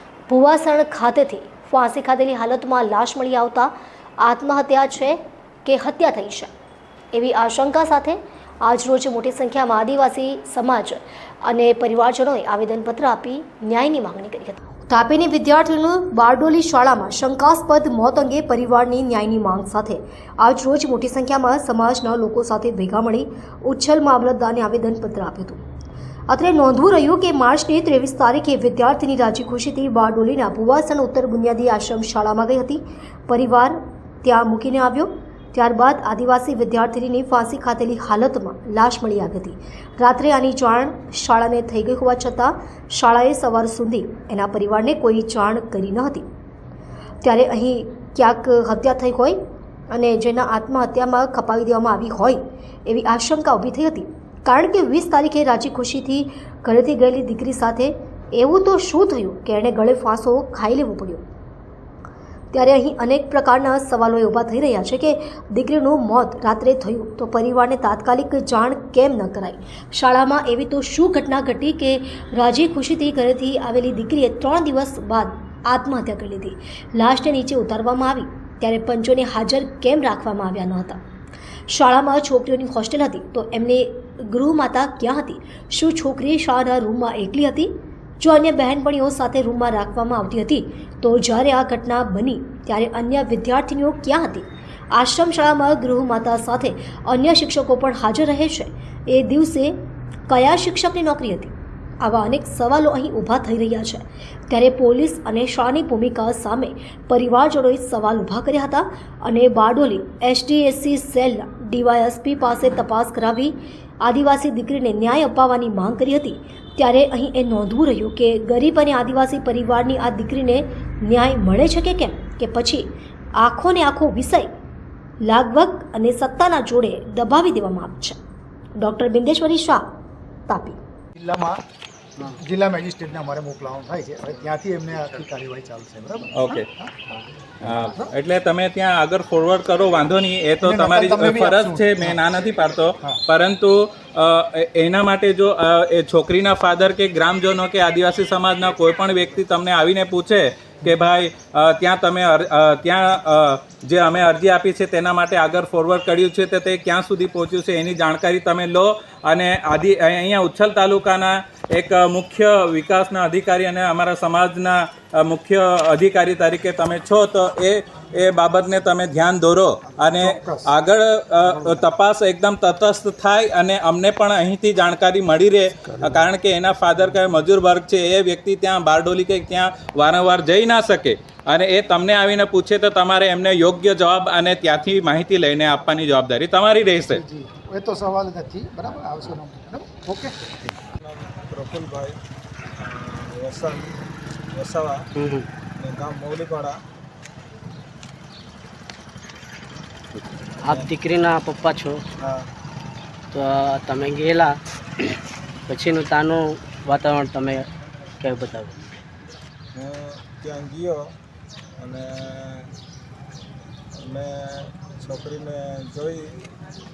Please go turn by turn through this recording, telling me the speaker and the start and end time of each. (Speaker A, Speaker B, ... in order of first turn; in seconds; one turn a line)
Speaker A: 0.3-6.5
Speaker A: 7.1-25.6
Speaker A: 26.3-46.2
Speaker A: 47.2-49.4
Speaker A: 49.9-61.2
Speaker A: 62.5-81.0
Speaker A: 81.7-99.8
Speaker A: 100.3-122.8
Speaker A: 123.4-124.5
Speaker A: 125.2-128.2
Speaker A: 128.8-129.8
Speaker A: 130.5-130.8
Speaker B: 131.2-131.6
Speaker B: 132.2-136.9
Speaker C: 136.4-136.6
Speaker C: 137.6-187.2
Speaker B: 140.6-142.2
Speaker B: 170.1-170.7
Speaker B: 187.1-190.4
Speaker D: 191.0-192.1
Speaker D: 192.8-193.9
Speaker D: 194.5-195.1
Speaker E: 195.2-195.5
Speaker D: 195.8-196.8
Speaker E: 200.1-202.0
Speaker D: 202.2-202.5
Speaker E: 203.3-205.1
Speaker E: 205.7-207.7
Speaker E: 208.2-208.9
Speaker D: 209.7-211.0
Speaker D: 211.8-212.7
Speaker D: 214.0-216.5